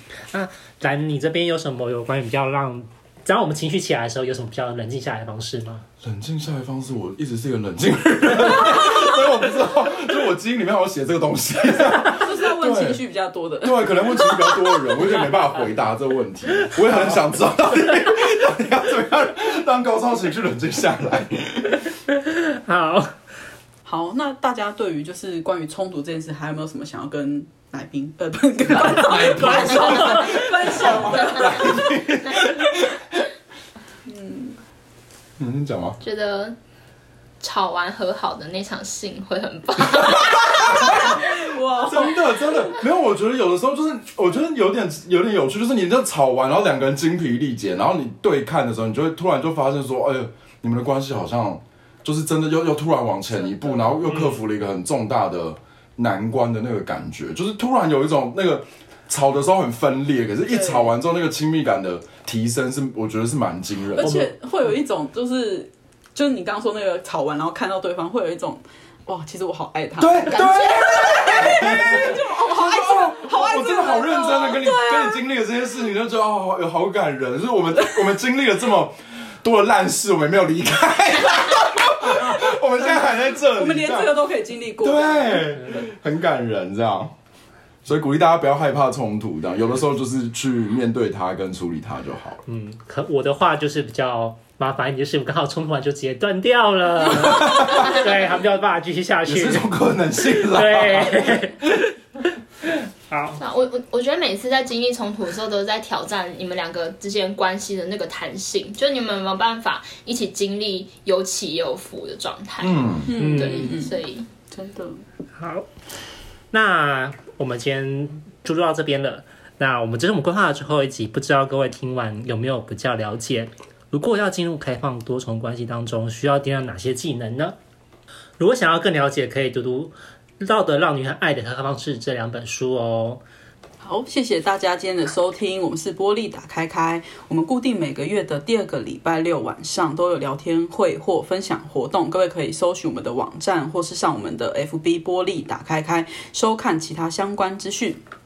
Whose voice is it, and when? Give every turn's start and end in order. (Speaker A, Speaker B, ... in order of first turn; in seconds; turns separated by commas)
Speaker A: 0.3-5.8, Speaker B: 6.0-13.0, Speaker C: 11.9-14.8, Speaker B: 13.6-21.8, Speaker A: 22.1-23.1, Speaker C: 23.8-32.1, Speaker B: 28.7-33.2, Speaker A: 28.8-30.4, Speaker C: 34.0-34.6, Speaker B: 35.4-36.0, Speaker D: 36.0-36.5, Speaker D: 37.4-41.0, Speaker B: 39.8-64.2, Speaker C: 40.6-42.6, Speaker C: 53.3-54.1, Speaker A: 54.0-54.4, Speaker C: 60.5-60.9, Speaker C: 63.9-75.2, Speaker A: 64.0-64.3, Speaker B: 70.0-84.2, Speaker D: 70.3-71.1, Speaker C: 82.1-85.9, Speaker B: 84.8-87.1, Speaker B: 87.8-92.4, Speaker A: 92.5-99.7, Speaker B: 97.2-98.0, Speaker B: 99.2-101.6, Speaker A: 100.3-101.8, Speaker A: 102.6-103.4, Speaker D: 103.4-114.2, Speaker B: 112.6-113.1, Speaker C: 113.1-115.0, Speaker A: 113.2-113.7, Speaker A: 115.4-115.7, Speaker A: 116.5-127.5, Speaker A: 128.4-133.2, Speaker C: 133.8-148.0